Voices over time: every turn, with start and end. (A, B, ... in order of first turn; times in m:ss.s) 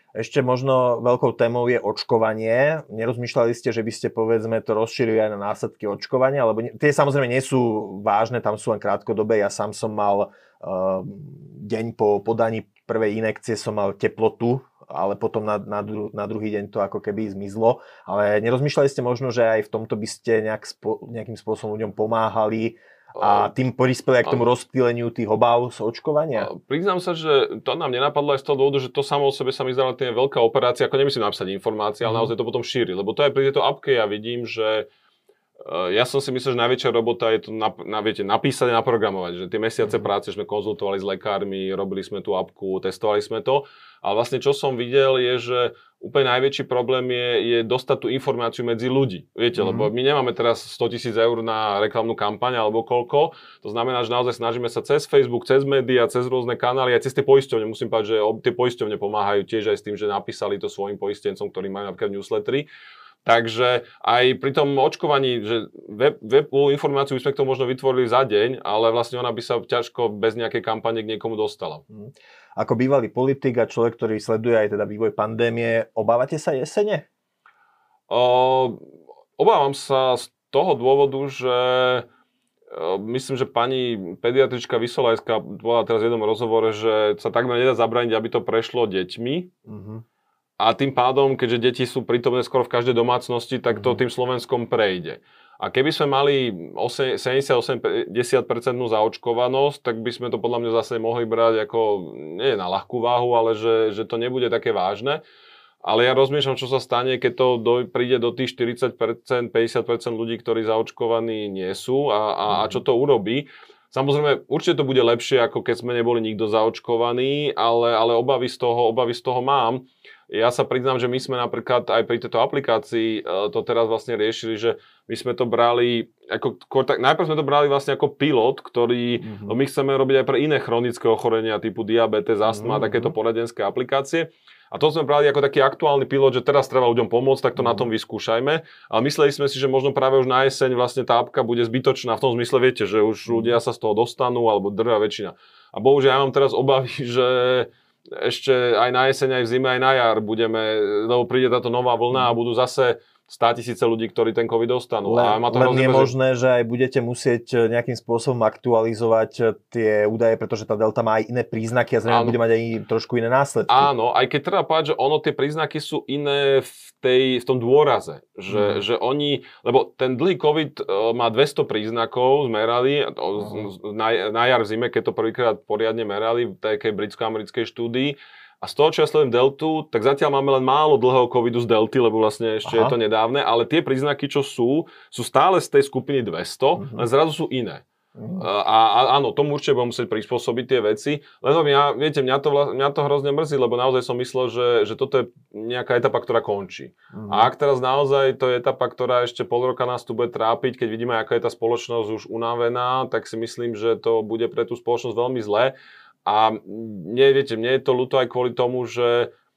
0:00.2-0:26.5 A
0:23.2-0:23.5 B
0:26.4-0:34.9 B
0:32.0-0:32.3 A
0:35.6-1:02.7 B
0:49.6-0:49.9 A
1:03.2-1:11.8 B
1:11.9-1:17.0 A
1:18.1-1:18.8 B
1:19.4-1:22.1 B
1:22.7-1:29.5 B
1:29.7-1:30.0 A
1:30.6-1:45.2 B
1:33.7-1:34.0 A
1:45.8-2:36.1 B
1:52.5-1:52.8 A
2:09.2-2:09.6 A
2:12.5-2:13.2 A
2:17.6-2:17.9 A
2:23.3-2:23.6 A
2:35.0-2:43.9 A
2:42.1-2:42.4 B
2:43.7-3:07.8 B
2:48.5-2:48.9 A
2:53.4-2:53.7 A
3:02.6-3:03.0 A
3:06.8-3:07.1 A
3:08.2-3:08.4 A
3:08.4-3:29.3 B
3:17.1-3:17.5 A